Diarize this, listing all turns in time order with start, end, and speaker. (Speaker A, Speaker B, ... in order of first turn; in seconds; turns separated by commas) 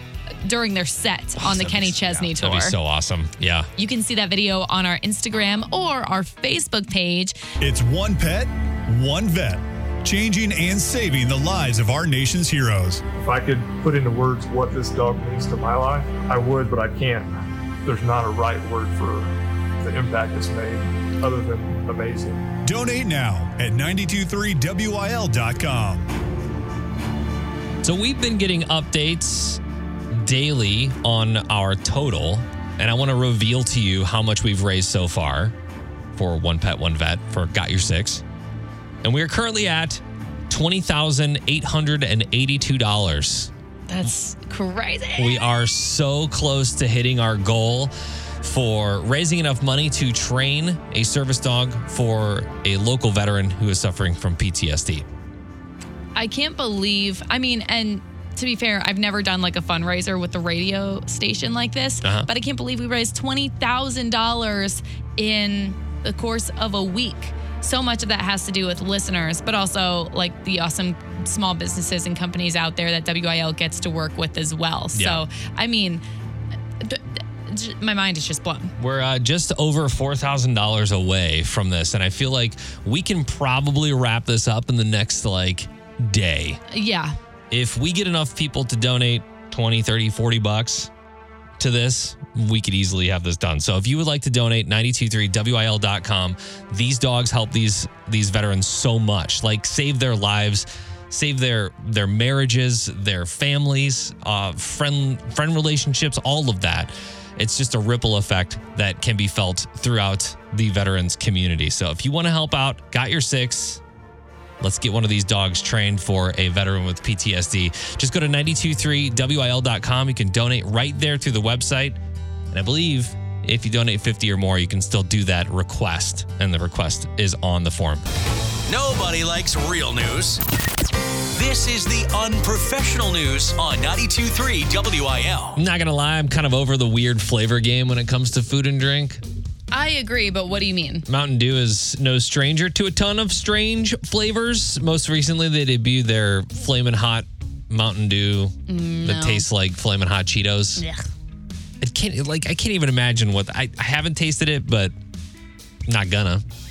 Speaker A: 0.4-2.8, Speaker B: 1.4-3.7, Speaker A: 3.8-7.4, Speaker C: 7.6-13.0, Speaker D: 13.2-22.5, Speaker C: 22.6-26.1, Speaker B: 27.8-29.6, Speaker B: 30.1-35.5, Speaker B: 36.1-38.2, Speaker B: 39.0-43.5, Speaker A: 43.9-45.4, Speaker B: 45.2-55.0, Speaker A: 56.1-76.0, Speaker B: 62.0-62.3, Speaker B: 74.9-75.2, Speaker A: 76.8-78.7, Speaker B: 78.8-86.6, Speaker A: 86.7-87.1, Speaker B: 87.5-90.9, Speaker B: 91.6-113.8, Speaker B: 114.6-122.0, Speaker B: 122.5-128.0, Speaker E: 128.7-130.4, Speaker E: 131.3-135.6, Speaker B: 135.6-139.2, Speaker A: 139.7-141.1, Speaker B: 141.1-150.8, Speaker A: 148.7-149.5, Speaker A: 150.8-151.0, Speaker B: 151.8-154.9, Speaker B: 155.9-156.4